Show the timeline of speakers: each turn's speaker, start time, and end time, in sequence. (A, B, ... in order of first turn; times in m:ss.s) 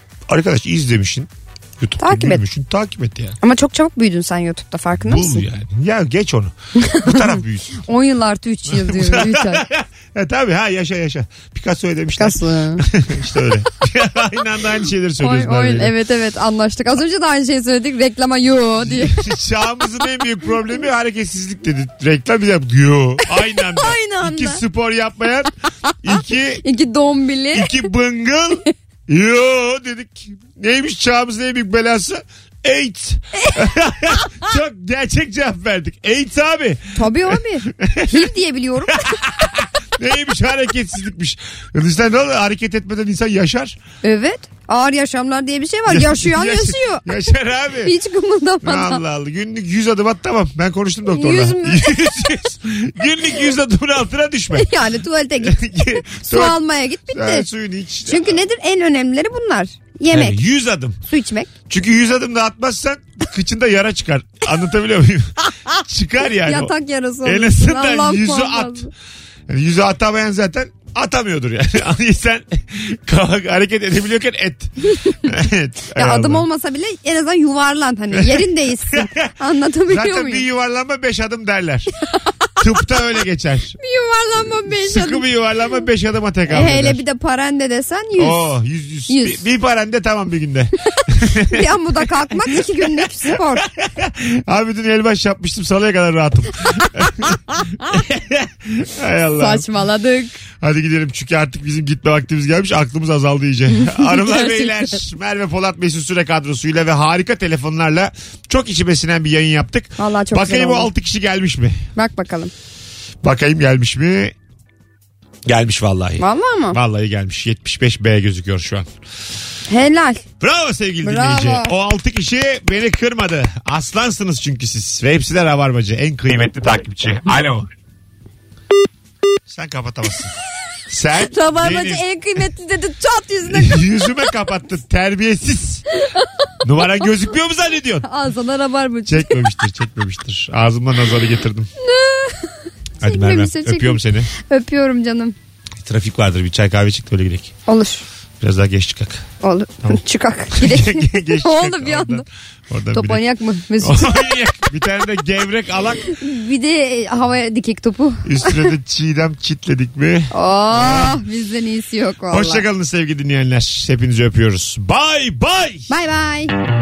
0:00.3-0:03.4 A
0:02.0-0:02.4 B
0:03.4-0:05.4 B
0:05.0-0:07.8 A
0:06.8-0:09.6 B
0:08.7-0:15.9 A
0:12.2-0:12.9 B
0:15.2-0:19.2 B
0:18.8-0:25.5 A
0:23.3-0:24.6 B
0:26.0-0:26.6 A
0:26.6-0:27.8 B
0:27.5-0:38.3 A
0:37.0-0:39.2 B
0:38.9-0:43.8 A
0:44.0-0:47.3 B
0:45.9-0:47.9 A
0:47.8-0:49.0 B
0:48.6-0:54.7 A
0:51.1-0:52.3 B
0:54.6-0:57.5 B
0:55.4-0:58.4 A
0:58.1-1:00.4 B
1:00.1-1:01.0 A
1:01.1-1:01.5 B
1:01.7-1:06.7 A
1:06.4-1:08.9 B
1:07.2-1:08.9 A
1:09.5-1:14.7 A
1:15.2-1:16.5 A
1:16.0-1:20.4 B
1:18.1-1:19.3 A
1:19.9-1:21.9 A
1:22.6-1:23.8 A
1:23.8-1:25.3 B
1:24.8-1:27.0 A
1:26.5-1:28.5 B
1:28.2-1:31.7 A
1:29.1-1:29.4 B
1:31.5-1:33.6 B
1:33.3-1:39.7 A
1:39.4-1:40.4 B
1:40.6-1:51.8 A
1:43.9-1:44.7 B
1:50.0-1:50.9 B
1:52.0-1:52.5 B
1:53.2-1:54.4 A
1:55.5-1:58.9 A
1:56.2-1:56.8 B
1:59.7-2:00.2 B
2:00.4-2:07.7 A
2:01.0-2:01.7 B
2:09.5-2:10.3 A
2:10.9-2:12.0 A
2:11.3-2:13.8 B
2:13.5-2:15.8 A
2:16.6-2:18.1 A
2:18.0-2:19.5 B
2:19.1-2:21.7 A
2:21.8-2:25.4 B
2:23.0-2:24.3 A
2:25.8-2:27.5 A
2:27.7-2:28.0 B
2:28.4-2:29.3 A
2:29.4-2:32.2 B
2:30.5-2:33.2 A
2:32.9-2:34.3 B
2:33.8-2:36.1 A
2:36.1-2:38.7 B
2:38.2-2:41.2 A
2:40.3-2:42.6 B
2:42.3-2:45.9 A
2:45.9-2:46.5 B